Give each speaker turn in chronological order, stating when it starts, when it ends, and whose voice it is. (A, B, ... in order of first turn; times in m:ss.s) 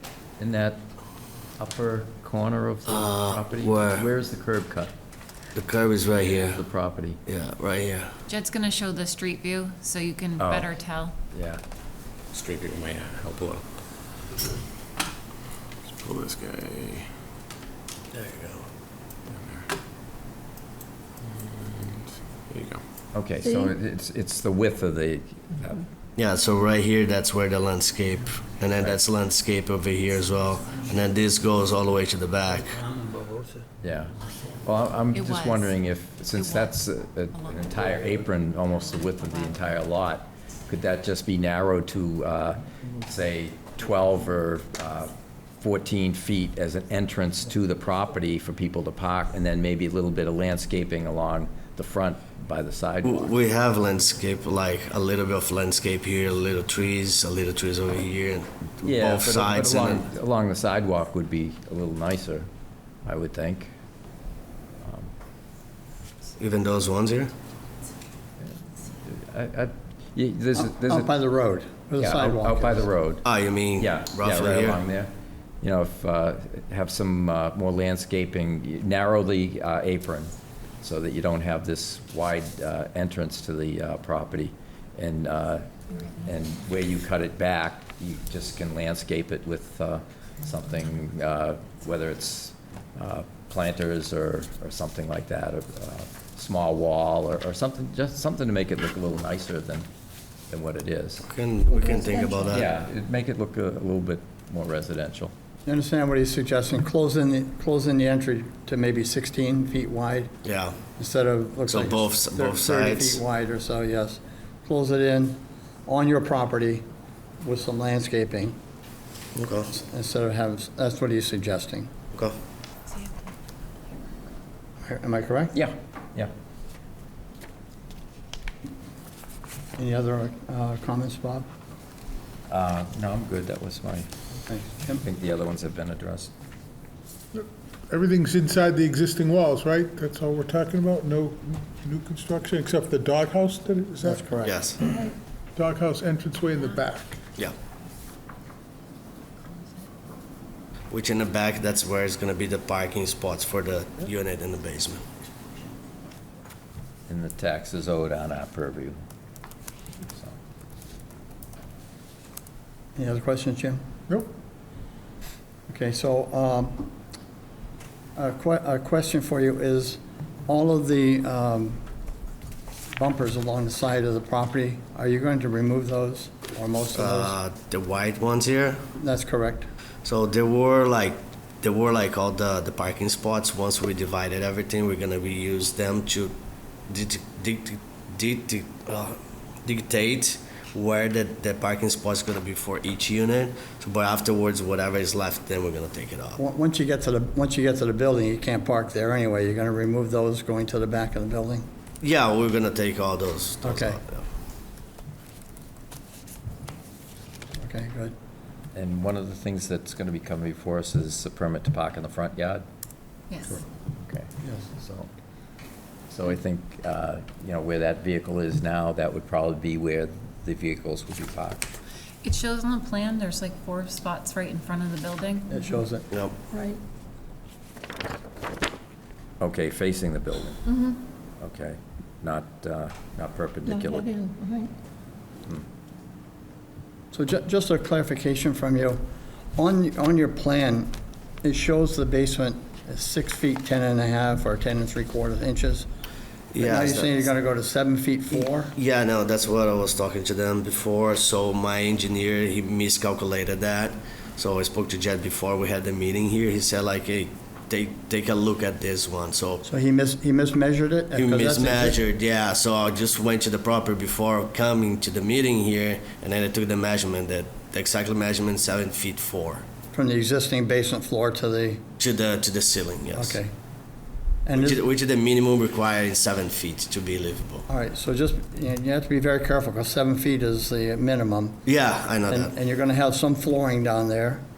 0:00.4-0:00.8 A
0:01.6-0:04.9 A
0:02.9-0:04.1 B
0:05.6-0:06.6 B
0:06.4-0:07.2 A
0:07.3-0:08.2 B
0:08.3-0:11.2 C
0:10.4-0:10.7 A
0:11.3-0:11.6 A
0:12.4-0:13.5 D
0:16.0-0:17.0 D
0:18.1-0:18.6 B
0:21.4-0:22.8 D
0:23.1-0:25.8 A
0:23.4-0:23.7 E
0:26.2-0:32.9 B
0:33.8-0:53.3 A
0:35.1-0:35.7 C
0:36.3-0:36.8 C
0:37.3-0:37.8 C
0:38.7-0:39.7 C
0:53.0-1:00.1 B
0:58.8-1:02.5 A
1:03.0-1:03.7 A
1:04.8-1:05.1 A
1:06.4-1:07.3 B
1:08.4-1:11.1 A
1:10.6-1:12.9 F
1:12.0-1:13.2 A
1:13.2-1:14.8 B
1:13.8-1:39.9 A
1:40.5-1:41.3 A
1:41.2-1:42.7 B
1:41.7-1:42.6 E
1:42.5-1:45.3 A
1:45.7-1:50.3 F
1:50.4-1:50.8 B
1:51.0-1:56.8 F
1:51.7-1:53.2 B
1:57.4-1:58.6 F
1:59.4-1:59.7 B
1:59.7-2:01.9 F
2:02.9-2:03.3 C
2:04.8-2:05.6 F
2:05.5-2:06.3 A
2:09.8-2:11.5 F
2:12.5-2:14.1 A
2:14.5-2:15.0 F
2:15.0-2:16.3 A
2:17.3-2:24.3 G
2:24.0-2:24.6 F
2:24.4-2:24.8 B
2:25.6-2:27.2 G
2:30.9-2:35.0 B
2:37.1-2:39.0 A
2:40.0-2:40.4 A
2:43.0-2:43.8 F
2:45.7-2:46.9 F
2:48.2-2:51.8 F
2:53.0-2:57.4 F
2:57.0-2:58.8 B
2:59.0-2:59.7 F
3:00.0-3:06.4 B
3:06.9-3:16.4 B
3:16.4-3:21.7 F
3:22.0-3:24.2 B
3:23.6-3:24.0 F
3:27.6-3:28.1 F
3:28.7-3:32.6 A
3:33.3-3:33.6 C
3:33.6-3:35.1 A
3:34.4-3:34.7 F
3:36.1-3:41.7 A
3:42.2-3:45.8 C
3:45.5-3:46.1 F
3:46.1-3:46.4 B
3:46.5-3:46.8 E
3:49.4-3:50.6 A
3:51.4-3:54.1 A
3:53.7-3:54.7 E
3:57.1-3:59.0 F
3:59.6-4:00.9 F
4:01.4-4:05.9 F
4:06.5-4:07.2 B
4:06.6-4:08.8 F
4:08.3-4:19.6 B
4:19.6-4:22.0 F
4:21.1-4:29.7 B
4:29.9-4:31.8 F
4:32.0-4:33.4 B
4:33.1-4:33.5 F
4:34.5-4:34.8 F
4:34.6-4:37.7 B
4:37.7-4:41.6 F
4:41.6-4:42.5 B
4:42.3-4:44.4 F